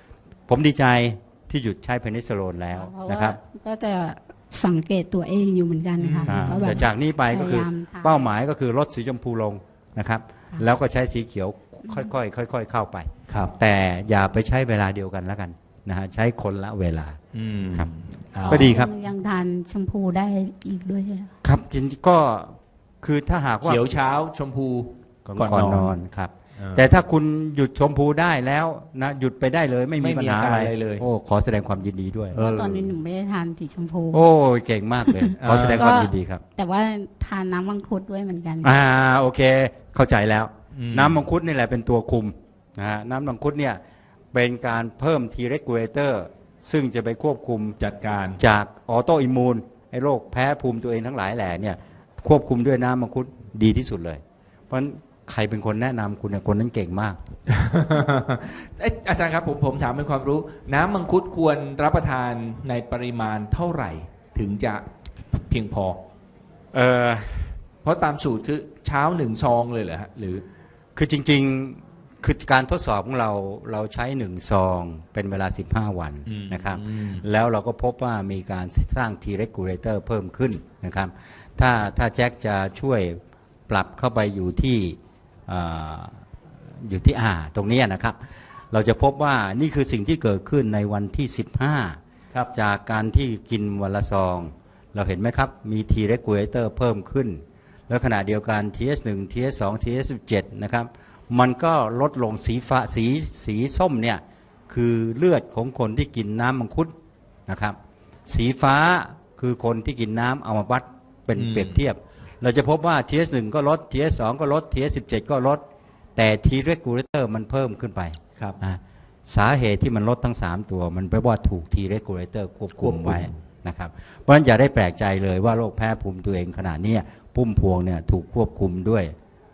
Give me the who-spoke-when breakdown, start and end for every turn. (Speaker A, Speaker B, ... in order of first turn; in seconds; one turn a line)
Speaker A: 0.5-3.4
Speaker B: 2.7-8.3
Speaker C: 6.0-6.8
Speaker A: 6.3-17.2
Speaker C: 13.3-13.6
Speaker C: 17.3-18.8
Speaker A: 18.4-18.9
Speaker B: 18.5-21.3
Speaker A: 21.4-23.8
Speaker C: 23.6-26.0
Speaker A: 25.3-32.9
Speaker C: 26.6-26.9
Speaker C: 30.0-31.1
Speaker B: 32.4-34.3
Speaker A: 34.1-36.4
Speaker B: 35.1-38.8
Speaker C: 35.4-36.0
Speaker A: 38.6-43.8
Speaker C: 40.7-41.2
Speaker A: 44.3-47.8
Speaker C: 47.8-48.4
Speaker A: 48.4-57.2
Speaker C: 57.5-66.0
Speaker A: 66.7-67.6
Speaker C: 67.8-70.5
Speaker A: 71.0-86.3
Speaker C: 76.3-77.3
Speaker A: 86.8-92.0
Speaker A: 92.5-106.9
Speaker A: 107.5-107.8
Speaker A: 108.3-115.6
Speaker C: 111.3-111.8
Speaker A: 116.2-129.2
Speaker C: 122.8-123.4